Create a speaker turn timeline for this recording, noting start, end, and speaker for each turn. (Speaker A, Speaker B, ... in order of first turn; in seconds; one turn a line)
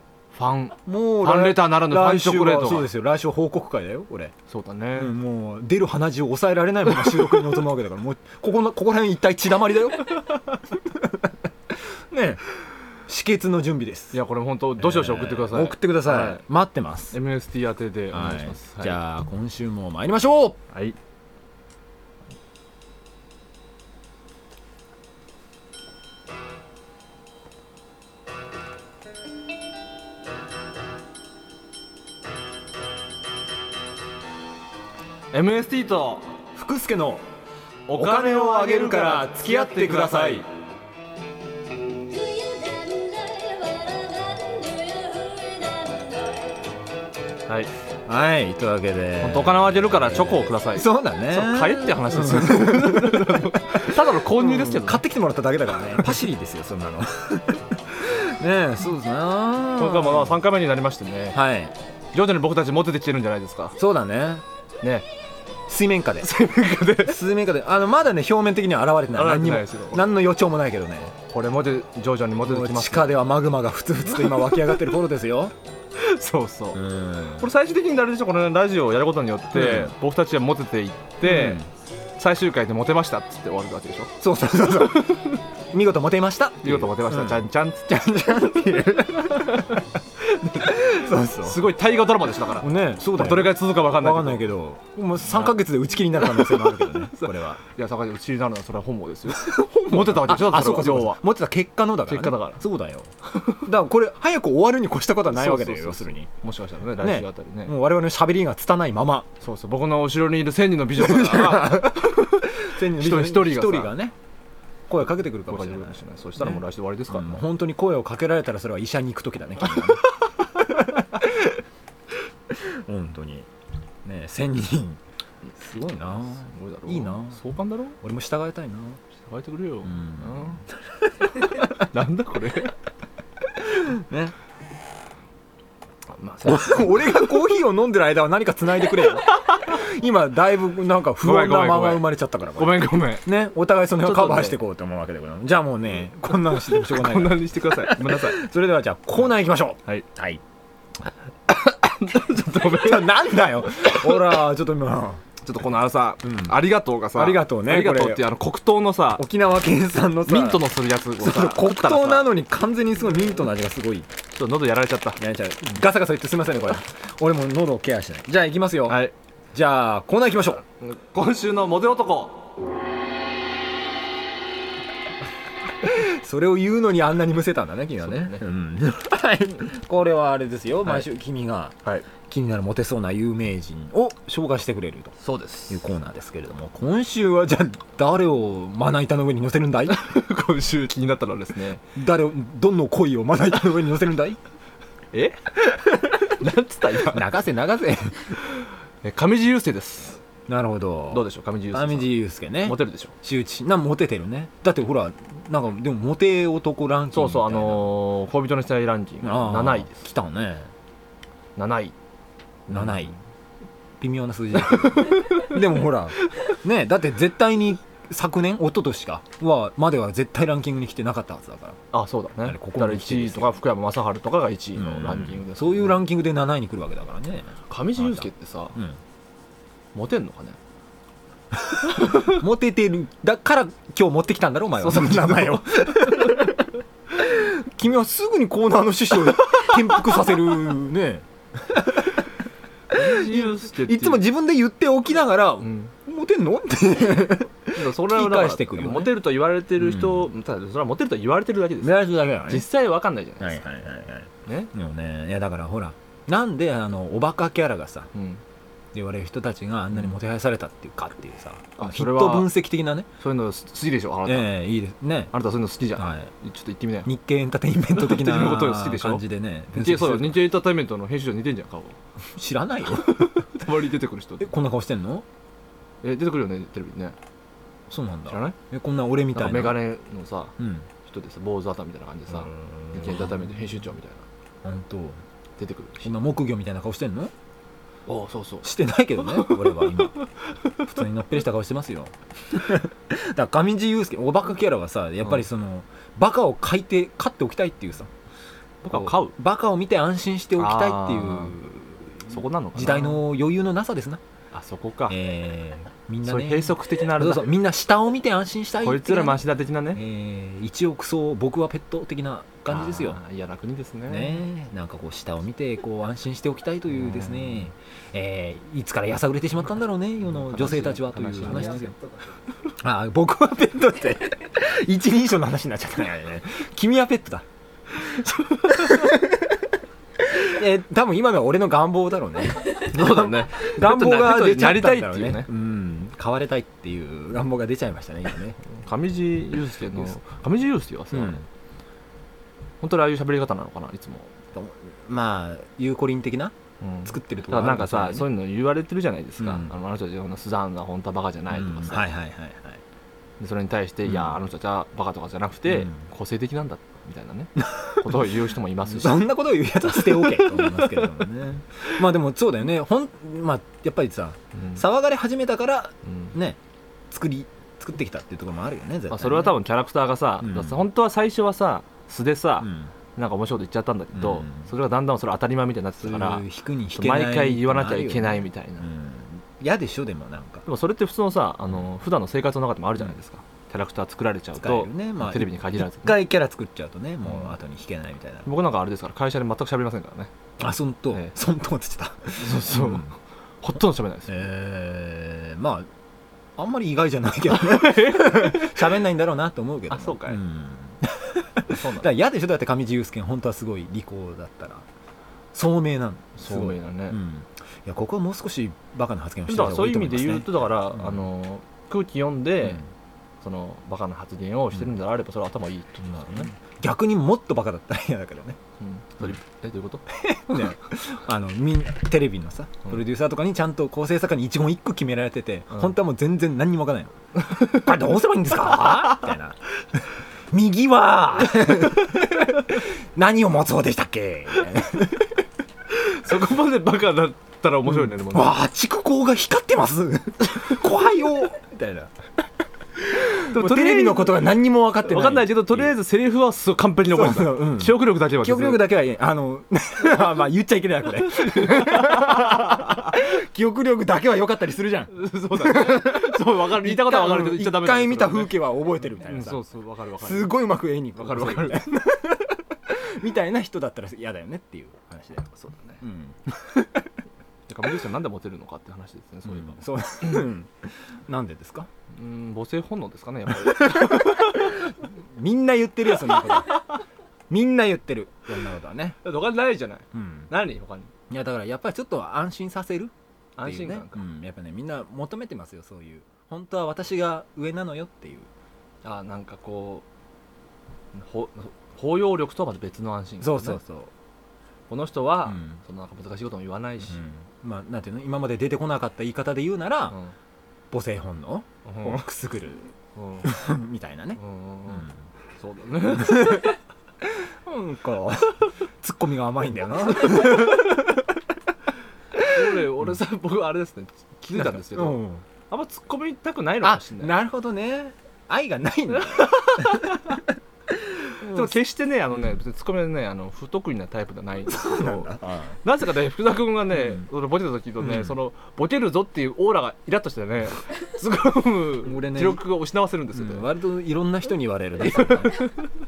Speaker A: 0.3-2.9
Speaker B: 0.9-4.3
Speaker A: 4.5-5.2
Speaker B: 5.0-10.2
Speaker B: 10.7-12.4
Speaker B: 13.1-14.2
Speaker A: 14.1-16.4
Speaker B: 14.8-17.2
Speaker A: 17.1-19.0
Speaker B: 18.1-20.6
Speaker A: 35.3-36.4
Speaker B: 36.5-37.2
Speaker A: 37.9-40.5
Speaker B: 37.9-40.5
Speaker C: 42.0-46.7
Speaker B: 48.1-60.4
Speaker A: 49.2-55.0
Speaker A: 59.8-61.4
Speaker B: 61.3-61.7
Speaker A: 62.1-63.8
Speaker B: 63.8-64.4
Speaker B: 65.7-66.3
Speaker A: 66.2-67.2
Speaker B: 67.0-71.1
Speaker A: 69.1-70.1
Speaker A: 71.3-73.2
Speaker B: 72.4-75.5
Speaker A: 74.3-74.8
Speaker A: 76.0-76.8
Speaker B: 76.8-77.5
Speaker A: 77.4-81.7
Speaker B: 79.5-79.9
Speaker B: 81.2-81.7
Speaker A: 82.2-84.1
Speaker B: 84.2-89.7
Speaker A: 85.0-85.4
Speaker A: 86.6-88.0
Speaker A: 89.4-94.5
Speaker B: 90.7-91.7
Speaker B: 92.6-97.6
Speaker A: 95.3-95.6
Speaker A: 96.1-101.2
Speaker B: 99.3-106.3
Speaker A: 102.1-102.6
Speaker A: 103.3-103.6
Speaker A: 105.3-107.8
Speaker B: 107.0-109.3
Speaker A: 109.4-114.0
Speaker B: 111.0-114.2
Speaker B: 114.9-121.5
Speaker A: 115.4-117.4
Speaker B: 122.5-123.5
Speaker B: 124.0-125.0
Speaker B: 125.6-127.4
Speaker A: 126.5-128.0
Speaker B: 128.0-129.0
Speaker A: 129.2-130.6
Speaker B: 129.8-131.7
Speaker A: 131.3-132.7
Speaker B: 133.6-134.3
Speaker A: 136.1-137.3
Speaker B: 136.4-150.4
Speaker A: 139.3-139.8
Speaker A: 141.2-143.3
Speaker A: 144.0-144.6
Speaker A: 146.4-148.4
Speaker A: 151.6-153.8
Speaker B: 152.6-155.2
Speaker A: 155.4-159.3
Speaker B: 156.2-156.6
Speaker B: 157.1-158.3
Speaker B: 159.2-164.1
Speaker A: 160.2-162.3
Speaker A: 164.3-165.2
Speaker B: 165.2-170.6
Speaker A: 168.9-169.1
Speaker A: 170.8-172.5
Speaker B: 175.8-185.2
Speaker A: 178.0-178.4
Speaker A: 185.2-185.8
Speaker B: 185.7-190.1
Speaker A: 189.9-191.8
Speaker B: 191.9-194.4
Speaker A: 195.1-197.3
Speaker B: 197.1-198.4
Speaker A: 198.5-200.2
Speaker B: 200.5-207.9
Speaker A: 201.1-202.1
Speaker A: 202.7-203.1
Speaker A: 207.1-210.1
Speaker B: 209.2-210.7
Speaker A: 211.6-212.0
Speaker B: 212.7-213.1
Speaker A: 212.7-213.2
Speaker B: 214.0-221.8
Speaker A: 214.7-215.6
Speaker A: 221.9-226.0
Speaker B: 222.4-223.6
Speaker B: 224.8-229.0
Speaker A: 227.7-228.8
Speaker A: 229.9-230.6
Speaker A: 232.0-232.4
Speaker B: 232.1-242.3
Speaker A: 234.8-236.4
Speaker A: 242.9-244.3
Speaker B: 242.9-249.2
Speaker A: 245.6-245.9
Speaker A: 247.7-251.9
Speaker B: 249.8-250.3
Speaker B: 251.8-252.7
Speaker A: 252.5-253.6
Speaker B: 253.4-258.1
Speaker A: 254.4-254.7
Speaker A: 258.1-258.4
Speaker B: 258.9-263.1
Speaker A: 261.8-262.5
Speaker A: 263.2-264.5
Speaker B: 264.3-265.3
Speaker A: 265.3-267.1
Speaker B: 266.0-266.3
Speaker B: 267.1-270.4
Speaker A: 267.9-269.2
Speaker A: 269.8-272.0
Speaker B: 272.3-273.4
Speaker A: 272.9-274.5
Speaker B: 274.4-275.2
Speaker A: 276.0-277.2
Speaker B: 277.9-279.8
Speaker A: 278.3-278.6
Speaker A: 279.3-284.3
Speaker B: 280.6-280.9
Speaker B: 282.4-283.4
Speaker B: 284.6-285.2
Speaker A: 285.6-286.1
Speaker B: 286.0-287.3
Speaker A: 288.1-290.3
Speaker B: 288.6-290.1
Speaker B: 290.8-298.1
Speaker A: 298.8-299.4
Speaker B: 298.9-304.2
Speaker A: 300.6-301.6
Speaker A: 302.3-303.2
Speaker A: 304.5-305.2
Speaker B: 305.1-313.2
Speaker A: 306.2-307.5
Speaker A: 308.8-310.0
Speaker A: 312.7-314.4
Speaker B: 314.1-321.9
Speaker A: 316.9-317.7
Speaker A: 320.3-322.0
Speaker B: 322.8-327.5
Speaker A: 327.9-329.1
Speaker B: 328.7-329.6
Speaker B: 330.2-338.6
Speaker A: 332.8-335.5
Speaker A: 338.7-341.5
Speaker B: 341.1-341.4
Speaker A: 342.8-344.3
Speaker B: 344.5-348.3
Speaker A: 346.8-352.1
Speaker B: 349.4-349.7
Speaker B: 351.5-352.8
Speaker A: 353.4-359.2
Speaker B: 354.1-354.4
Speaker B: 355.7-356.0
Speaker B: 357.6-358.3
Speaker B: 358.9-366.6
Speaker A: 359.8-361.1
Speaker A: 364.6-364.8
Speaker A: 366.1-366.3
Speaker B: 367.1-369.6
Speaker A: 369.1-378.9
Speaker B: 370.4-370.8
Speaker B: 372.6-372.9
Speaker B: 374.1-374.7
Speaker B: 376.0-380.6
Speaker A: 380.7-386.2
Speaker B: 384.6-388.5
Speaker A: 387.2-387.6
Speaker A: 388.4-390.3
Speaker B: 390.6-393.1
Speaker A: 392.4-394.5
Speaker B: 394.3-395.9
Speaker B: 396.6-404.9
Speaker A: 397.5-398.9
Speaker A: 399.9-400.4
Speaker A: 401.7-402.1
Speaker B: 405.5-411.2
Speaker A: 406.4-407.2
Speaker A: 409.5-412.9
Speaker A: 413.4-416.5
Speaker B: 416.1-418.6
Speaker A: 418.8-420.1
Speaker B: 420.1-430.0
Speaker A: 427.5-427.9
Speaker A: 428.9-429.3
Speaker B: 430.5-435.4
Speaker A: 435.9-438.6
Speaker B: 437.9-442.1
Speaker B: 443.1-446.0
Speaker A: 443.3-444.4
Speaker A: 445.0-448.9
Speaker B: 447.1-459.6
Speaker A: 451.2-453.1
Speaker A: 455.1-458.6
Speaker A: 459.2-460.6
Speaker B: 460.2-465.5
Speaker A: 461.2-461.9
Speaker A: 465.5-466.0
Speaker B: 466.0-467.0
Speaker A: 467.7-470.4
Speaker B: 469.5-471.9
Speaker A: 472.1-474.8
Speaker B: 473.6-476.8
Speaker A: 476.3-476.8
Speaker B: 477.5-479.2
Speaker A: 479.2-481.1
Speaker B: 480.1-480.5
Speaker B: 481.3-488.5
Speaker A: 483.6-484.2
Speaker A: 489.0-490.1
Speaker A: 491.1-493.8
Speaker B: 493.4-494.1
Speaker A: 494.9-497.2
Speaker B: 495.5-495.8
Speaker B: 497.1-500.2
Speaker B: 500.9-502.9
Speaker A: 501.9-502.2
Speaker A: 503.2-503.5
Speaker B: 503.4-505.1
Speaker A: 504.4-506.7
Speaker B: 506.2-506.7
Speaker B: 507.2-511.3
Speaker A: 512.5-517.4
Speaker B: 514.5-515.5
Speaker B: 516.8-520.4
Speaker A: 519.1-520.4
Speaker B: 520.9-521.7
Speaker A: 521.3-533.7
Speaker B: 524.7-525.8
Speaker B: 528.0-528.4
Speaker B: 532.0-532.6
Speaker B: 533.3-535.7
Speaker A: 535.1-535.9